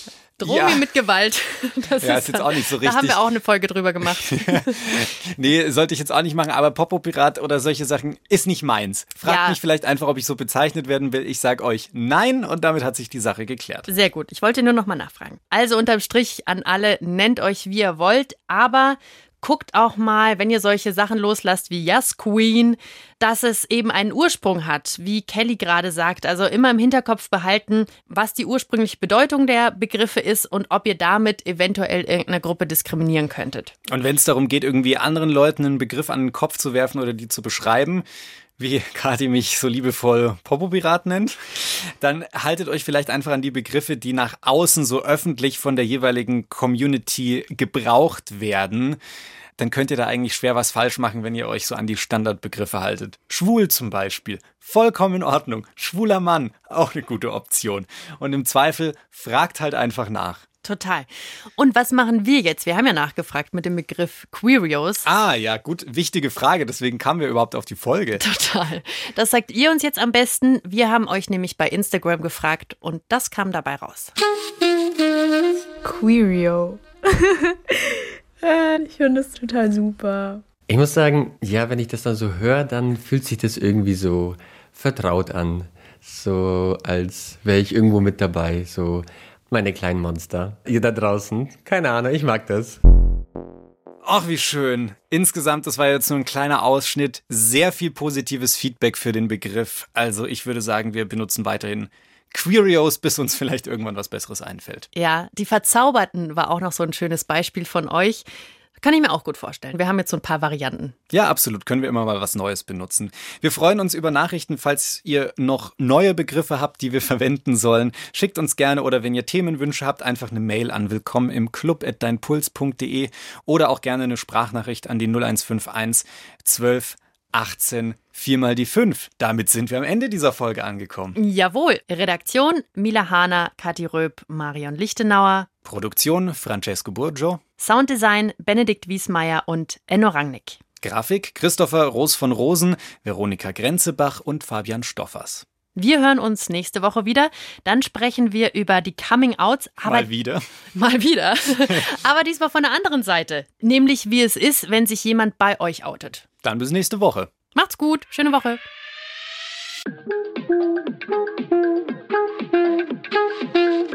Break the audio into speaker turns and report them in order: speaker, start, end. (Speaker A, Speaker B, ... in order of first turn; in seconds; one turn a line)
Speaker A: 0.4-4.8
Speaker B: 0.4-0.8
Speaker B: 2.0-3.2
Speaker B: 4.1-13.9
Speaker A: 9.2-9.6
Speaker A: 13.9-33.7
Speaker B: 33.9-38.0
Speaker B: 38.6-49.0
Speaker B: 49.6-60.4
Speaker A: 60.6-65.0
Speaker B: 65.0-68.2
Speaker A: 68.2-74.1
Speaker C: 75.8-77.5
Speaker C: 78.4-80.4
Speaker D: 80.7-92.8
Speaker B: 94.0-104.9
Speaker A: 104.9-108.2
Speaker A: 108.8-110.9
Speaker B: 111.1-131.2
Speaker A: 131.2-135.5
Speaker B: 135.6-137.4
Speaker A: 137.6-140.6
Speaker B: 140.8-145.4
Speaker A: 145.8-150.1
Speaker B: 149.8-150.4
Speaker A: 150.7-156.2
Speaker B: 156.4-157.3
Speaker A: 157.5-158.6